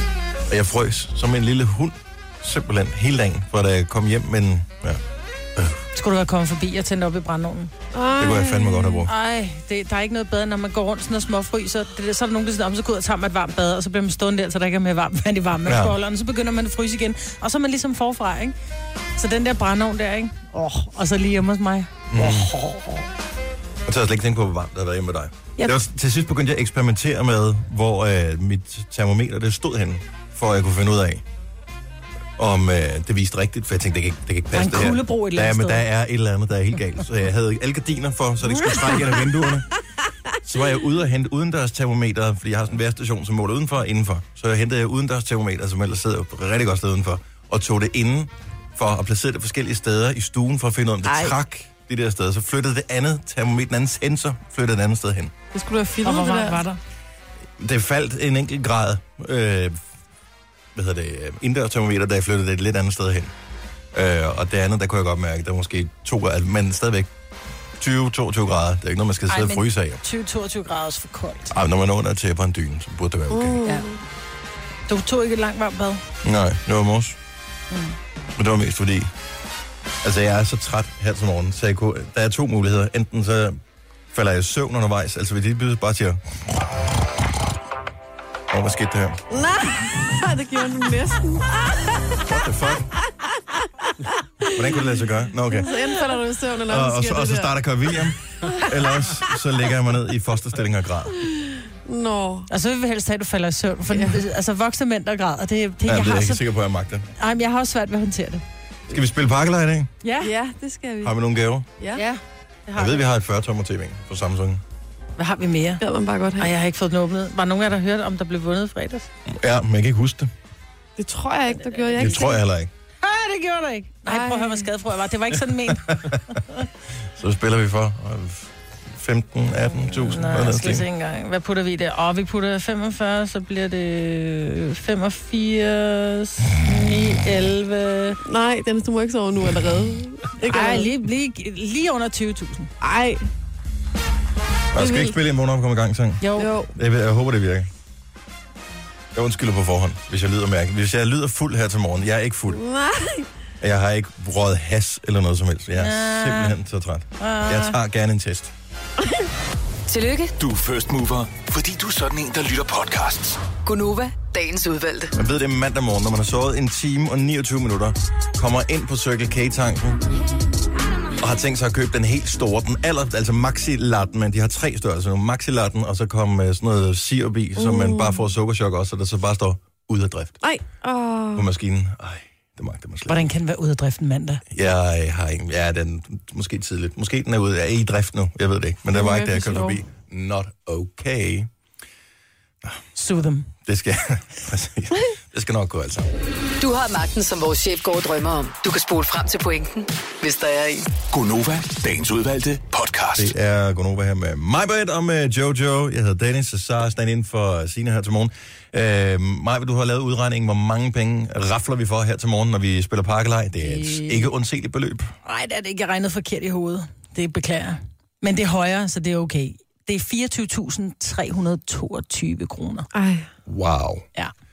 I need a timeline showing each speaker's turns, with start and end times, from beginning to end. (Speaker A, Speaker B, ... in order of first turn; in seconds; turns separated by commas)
Speaker A: 0.5-5.0, Speaker A: 5.5-5.8, Speaker B: 5.9-7.7, Speaker C: 7.9-9.1, Speaker A: 8.2-9.1, Speaker B: 9.1-18.5, Speaker A: 15.6-15.9, Speaker B: 19.1-22.0, Speaker A: 22.1-22.6, Speaker A: 23.9-31.2, Speaker A: 32.4-39.7, Speaker B: 34.5-35.8, Speaker A: 40.4-55.3, Speaker C: 51.0-51.3, Speaker C: 55.5-56.6, Speaker B: 56.0-56.8, Speaker A: 57.6-59.8, Speaker A: 60.7-63.3, Speaker A: 63.9-67.1, Speaker A: 67.8-70.0, Speaker B: 69.3-71.5, Speaker A: 71.5-73.6, Speaker C: 73.3-74.0, Speaker B: 74.9-76.0, Speaker A: 76.2-77.2, Speaker B: 77.7-78.0, Speaker A: 78.3-79.1, Speaker A: 80.0-83.6, Speaker A: 84.1-86.3, Speaker A: 88.5-89.2, Speaker C: 89.3-92.3, Speaker A: 92.2-92.9, Speaker C: 93.3-93.9, Speaker C: 94.4-94.8, Speaker A: 94.5-96.0, Speaker C: 95.5-97.5, Speaker A: 96.7-101.2, Speaker C: 101.5-102.5, Speaker B: 102.5-106.4, Speaker C: 103.9-104.2, Speaker A: 105.8-107.1, Speaker B: 107.2-108.4, Speaker A: 108.9-109.9, Speaker B: 110.0-110.3, Speaker C: 110.2-111.1, Speaker A: 111.0-111.7, Speaker B: 111.9-113.0, Speaker A: 112.7-114.6, Speaker B: 115.2-115.8, Speaker C: 115.8-116.5, Speaker B: 116.4-119.1, Speaker A: 119.2-120.3, Speaker C: 121.0-122.4, Speaker B: 121.6-122.2, Speaker A: 122.0-122.7, Speaker B: 123.0-126.6, Speaker C: 124.1-124.7, Speaker A: 125.7-126.2, Speaker A: 127.1-130.8, Speaker B: 129.8-138.2, Speaker C: 138.2-140.9, Speaker B: 140.4-142.7, Speaker C: 142.8-143.3, Speaker A: 144.7-147.7, Speaker C: 144.8-145.2, Speaker B: 146.2-146.5, Speaker C: 146.4-146.7, Speaker A: 149.1-152.6, Speaker C: 152.5-153.3, Speaker A: 153.6-158.5, Speaker B: 155.7-156.6, Speaker B: 157.2-157.8, Speaker D: 159.9-160.3, Speaker E: 160.4-163.4, Speaker D: 163.6-165.1, Speaker A: 165.2-170.0, Speaker A: 171.2-180.4, Speaker C: 177.6-178.2, Speaker C: 180.4-181.5, Speaker A: 181.3-183.2, Speaker B: 183.1-184.4, Speaker A: 184.5-191.5, Speaker C: 188.9-189.8, Speaker B: 192.9-193.5, Speaker A: 193.6-196.1, Speaker D: 196.6-200.9, Speaker E: 201.1-203.3, Speaker A: 203.2-215.1, Speaker B: 213.6-214.3, Speaker B: 215.2-222.9, Speaker C: 222.9-223.3, Speaker A: 223.4-224.1